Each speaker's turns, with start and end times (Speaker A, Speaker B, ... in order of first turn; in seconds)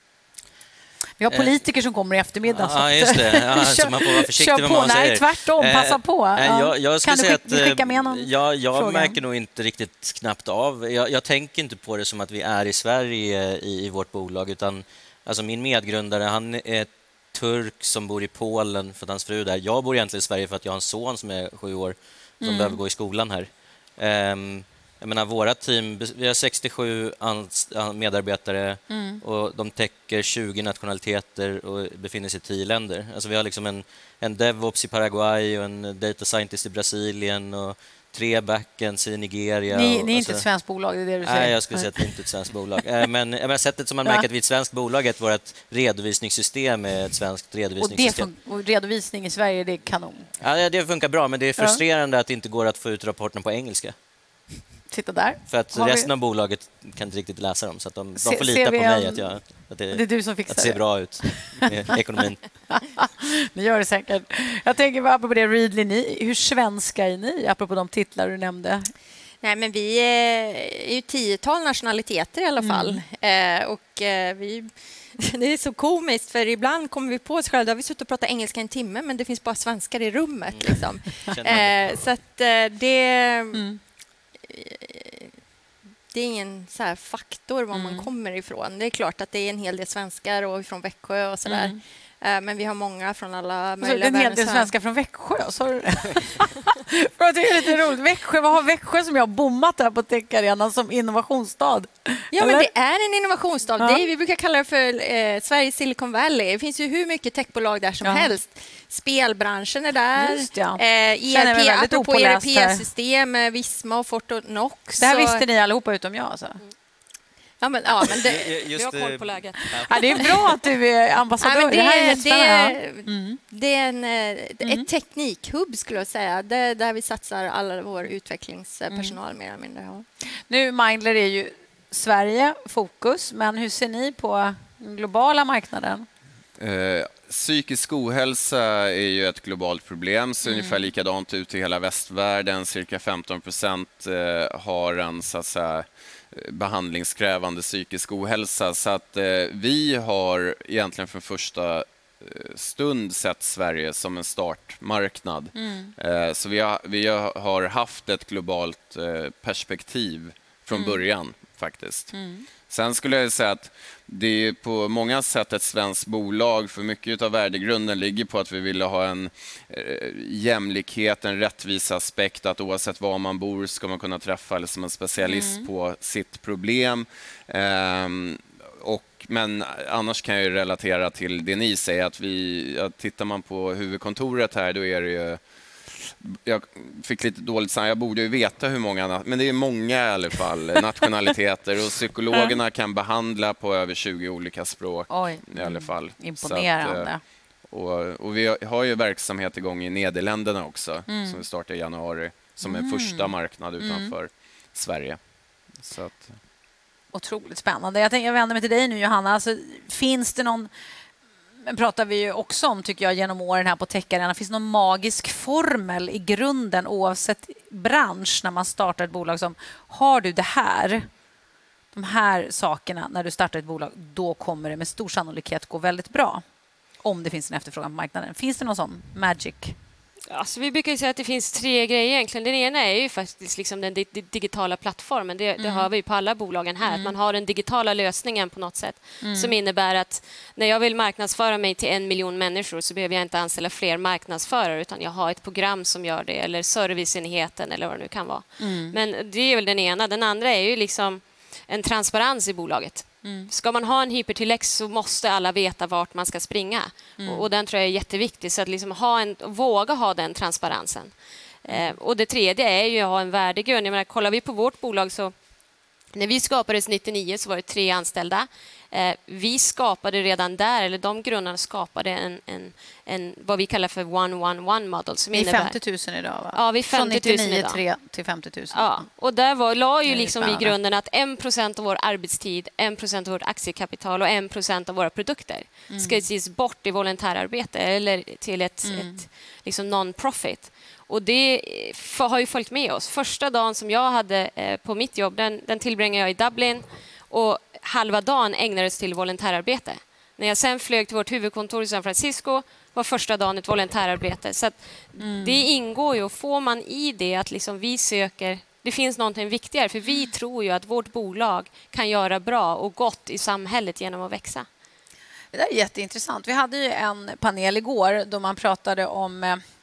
Speaker A: 1.2-9.2, 22.4-22.8, 28.9-29.2, 39.7-42.1, 47.8-50.3, 54.9-56.1, 58.1-61.8, 62.7-68.9, 72.6-73.0, 83.5-83.8, 87.7-88.1, 91.5-91.8, 93.8-102.7, 108.0-108.3, 110.2-112.8, 115.0-116.6, 119.8-123.4, 128.9-129.2, 130.5-136.1, 140.4-140.9, 155.5-155.9, 160.7-161.0, 162.1-162.5, 175.2-175.7, 192.3-192.6, 195.1-197.2, 201.1-201.4, 202.6-204.1, 207.1-210.7, 211.6-221.1, 221.9-226.4, 227.0-229.7, 235.6-235.9, 236.8-237.1, 239.2-239.5, 248.6-248.9, 253.2-253.5, 257.2-257.4, 261.7-261.9, 275.3-279.1, 280.0-280.7, 285.9-286.2, 288.8-289.2, 305.2-305.6, 315.5-319.6
Speaker B: 1.3-1.6, 2.5-40.5, 41.2-48.3, 50.4-54.0, 55.5-62.5, 80.5-82.0, 118.1-119.9
Speaker C: 69.4-83.6, 84.4-85.3, 86.1-94.7, 102.3-115.4, 117.6-118.5, 121.4-130.0
Speaker D: 118.6-120.1, 230.3-261.1, 261.6-265.3, 266.1-275.8, 276.5-277.8, 278.7-314.7
Speaker E: 136.6-162.1, 162.7-206.4